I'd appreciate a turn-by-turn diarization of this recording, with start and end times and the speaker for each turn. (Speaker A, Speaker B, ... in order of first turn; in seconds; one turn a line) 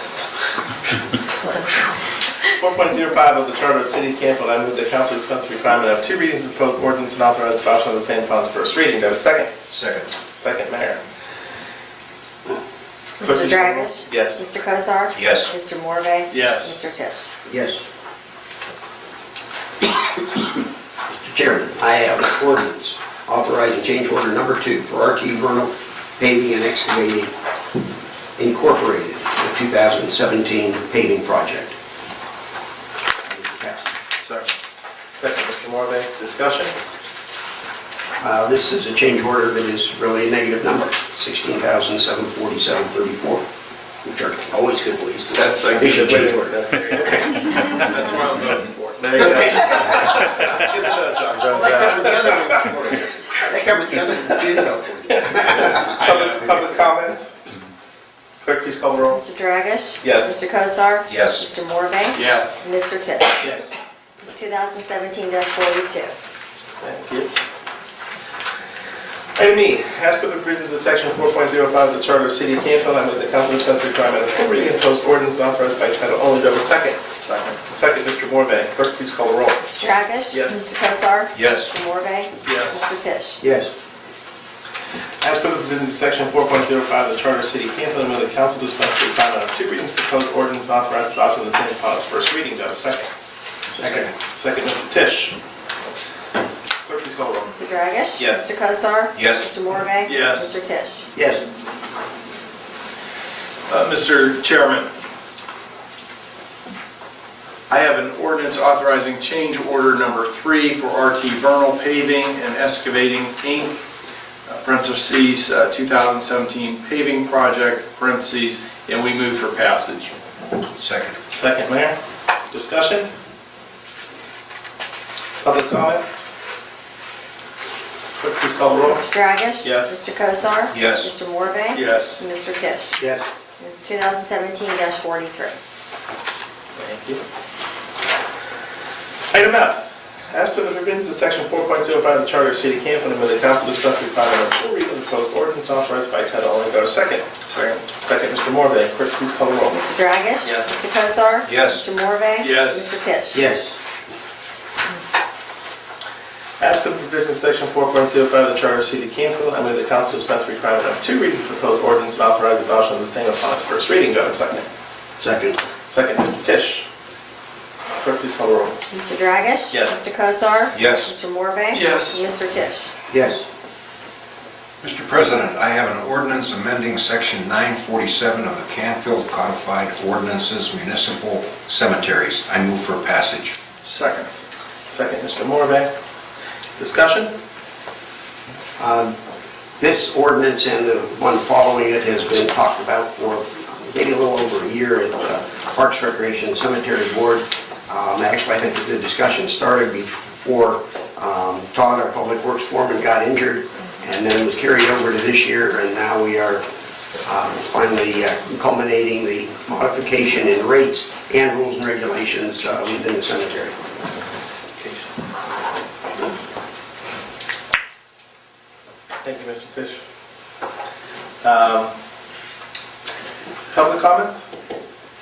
Speaker A: 1.4-1.7
Speaker B: 2.6-9.5
Speaker C: 9.7-10.1
Speaker B: 10.3-11.0
Speaker B: 13.2-14.4
Speaker A: 13.2-17.3
Speaker C: 15.1-15.5
Speaker D: 16.3-16.7
Speaker E: 17.5-17.8
Speaker E: 20.0-20.4
Speaker E: 21.1-27.3
Speaker E: 28.4-31.7
Speaker E: 33.2-33.9
Speaker B: 35.2-36.7
Speaker E: 38.2-43.4
Speaker E: 44.0-47.3
Speaker D: 45.3-50.7
Speaker E: 49.1-50.3
Speaker B: 50.5-51.2
Speaker E: 51.5-55.9
Speaker B: 55.1-57.4
Speaker D: 55.9-56.3
Speaker B: 58.4-59.2
Speaker A: 59.1-63.5
Speaker B: 60.0-60.3
Speaker C: 61.1-61.5
Speaker D: 62.1-62.6
Speaker B: 63.4-63.7
Speaker A: 64.2-66.1
Speaker B: 66.8-67.3
Speaker B: 69.3-77.0
Speaker D: 77.2-77.6
Speaker B: 77.6-79.6
Speaker A: 79.6-83.4
Speaker D: 80.3-80.7
Speaker C: 81.3-81.7
Speaker D: 82.4-82.8
Speaker E: 83.4-83.7
Speaker B: 85.2-93.1
Speaker B: 93.8-95.3
Speaker B: 96.8-97.5
Speaker A: 97.5-101.1
Speaker B: 98.2-98.5
Speaker C: 99.2-99.5
Speaker D: 100.0-100.5
Speaker E: 101.1-101.4
Speaker D: 103.7-104.9
Speaker D: 107.7-113.8
Speaker D: 114.5-120.2
Speaker C: 120.8-121.2
Speaker B: 121.3-122.0
Speaker B: 122.5-123.1
Speaker B: 125.4-126.3
Speaker B: 128.2-129.0
Speaker A: 128.8-133.0
Speaker B: 129.6-129.9
Speaker C: 130.7-131.1
Speaker D: 131.7-132.2
Speaker E: 133.0-133.3
Speaker A: 133.6-135.6
Speaker B: 136.7-137.2
Speaker B: 139.3-147.3
Speaker D: 147.4-147.8
Speaker B: 147.9-149.8
Speaker A: 149.7-153.4
Speaker C: 151.4-151.8
Speaker D: 152.4-153.0
Speaker E: 153.3-153.8
Speaker B: 156.6-164.7
Speaker E: 165.2-165.6
Speaker B: 165.8-166.8
Speaker B: 168.0-168.8
Speaker A: 168.9-172.9
Speaker B: 169.7-170.0
Speaker C: 170.7-171.1
Speaker D: 171.7-172.2
Speaker E: 173.1-173.5
Speaker C: 174.8-183.6
Speaker D: 183.8-184.3
Speaker B: 184.9-185.9
Speaker B: 186.8-187.3
Speaker E: 188.8-189.2
Speaker E: 189.8-206.6
Speaker E: 207.2-213.8
Speaker D: 214.8-215.0
Speaker B: 219.2-220.0
Speaker B: 221.4-221.9
Speaker B: 223.7-224.5